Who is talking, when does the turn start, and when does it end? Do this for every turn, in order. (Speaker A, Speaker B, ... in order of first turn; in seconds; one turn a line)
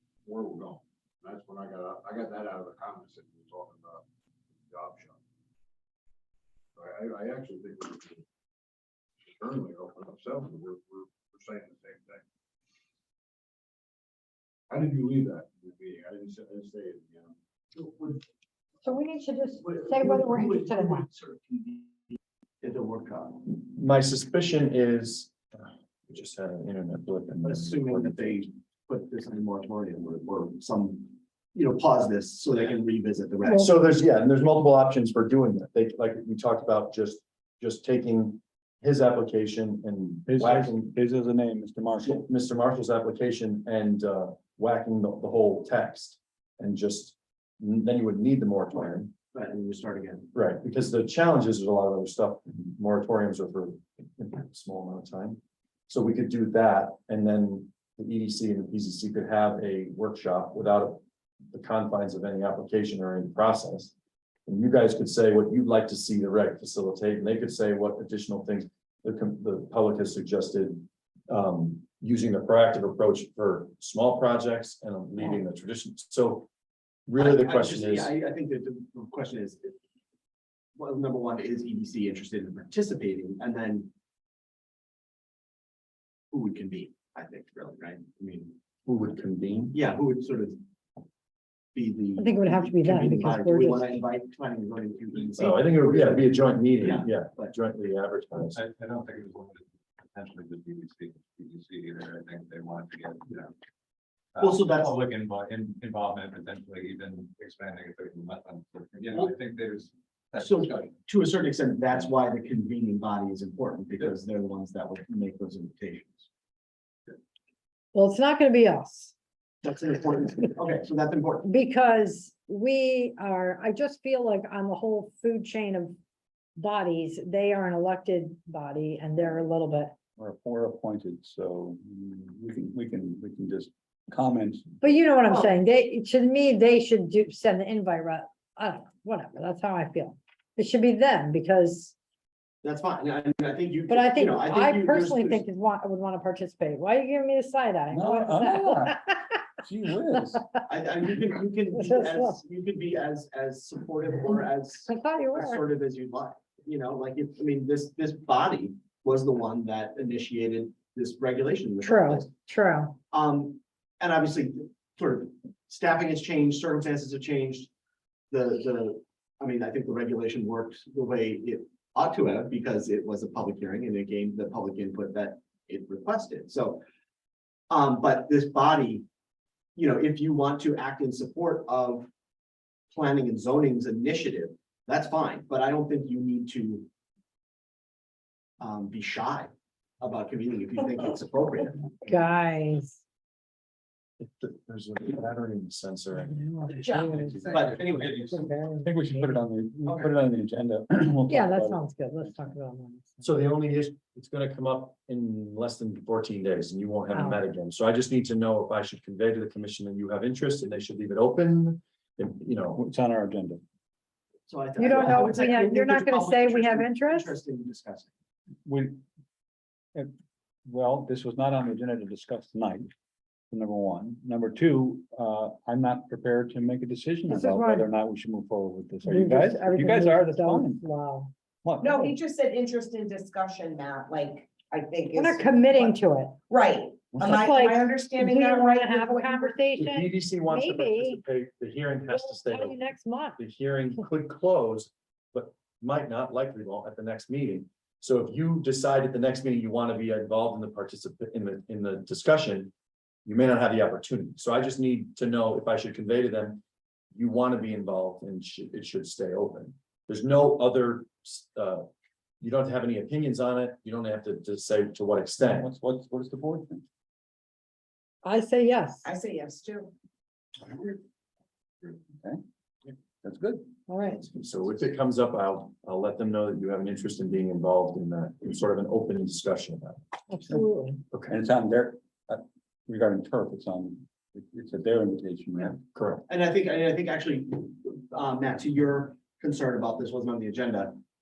Speaker A: 0.2-4.0
Speaker A: 4.7-5.2
Speaker A: 6.8-8.2
Speaker A: 9.2-12.2
Speaker A: 14.7-18.2
Speaker B: 18.8-21.1
Speaker A: 19.8-20.1
Speaker C: 19.9-22.0
Speaker C: 22.6-23.4
Speaker D: 23.5-28.4
Speaker C: 27.4-33.7
Speaker B: 33.5-33.7
Speaker D: 33.6-40.9
Speaker E: 40.3-42.2
Speaker D: 42.0-49.1
Speaker C: 48.7-50.3
Speaker D: 50.3-61.0
Speaker D: 61.5-63.9
Speaker D: 64.5-76.5
Speaker D: 77.1-78.1
Speaker C: 77.2-79.8
Speaker C: 80.8-83.9
Speaker C: 86.3-88.6
Speaker D: 88.9-89.8
Speaker C: 89.7-90.6
Speaker C: 91.7-97.5
Speaker B: 92.2-94.0
Speaker D: 95.4-98.6
Speaker F: 98.5-103.5
Speaker F: 104.3-110.9
Speaker C: 104.4-104.9
Speaker C: 110.4-116.3
Speaker B: 117.9-119.1
Speaker C: 119.6-121.5
Speaker B: 121.4-126.0
Speaker B: 126.6-129.9
Speaker E: 130.2-134.8
Speaker B: 134.8-141.9
Speaker C: 135.3-135.5
Speaker C: 142.6-145.4
Speaker B: 143.9-149.3
Speaker E: 147.9-149.0
Speaker E: 149.6-150.4
Speaker B: 150.1-150.6
Speaker C: 150.7-162.3
Speaker B: 151.7-152.4
Speaker B: 154.9-155.6
Speaker B: 161.8-163.0
Speaker C: 163.1-167.7
Speaker C: 168.3-176.8
Speaker C: 177.7-179.1
Speaker C: 179.8-182.1
Speaker C: 182.9-186.9
Speaker C: 188.6-191.9
Speaker B: 192.0-193.0
Speaker D: 194.2-196.5
Speaker B: 196.1-197.6
Speaker G: 196.7-197.8
Speaker C: 197.5-198.3
Speaker F: 197.7-198.4
Speaker B: 198.2-199.3
Speaker E: 198.8-202.5
Speaker B: 201.3-203.2
Speaker D: 203.2-212.8
Speaker B: 207.1-207.4
Speaker E: 212.8-213.6
Speaker C: 214.5-218.1
Speaker B: 214.8-217.3
Speaker E: 218.7-219.0
Speaker E: 220.7-222.9
Speaker E: 223.5-230.8
Speaker B: 227.3-227.9
Speaker B: 229.0-231.3
Speaker E: 231.6-232.1
Speaker G: 231.8-236.0
Speaker B: 235.2-236.4
Speaker G: 236.5-239.6
Speaker B: 237.3-241.2
Speaker D: 239.8-242.8
Speaker B: 242.1-243.4
Speaker D: 243.4-252.7
Speaker D: 253.2-256.6
Speaker D: 257.1-261.9
Speaker D: 262.4-265.7
Speaker E: 265.5-266.9
Speaker B: 268.2-269.1
Speaker G: 269.1-269.9
Speaker E: 273.2-273.7
Speaker B: 273.9-274.2
Speaker D: 274.3-280.0
Speaker B: 280.3-281.0
Speaker E: 281.3-285.8
Speaker D: 285.9-286.3
Speaker C: 286.3-291.0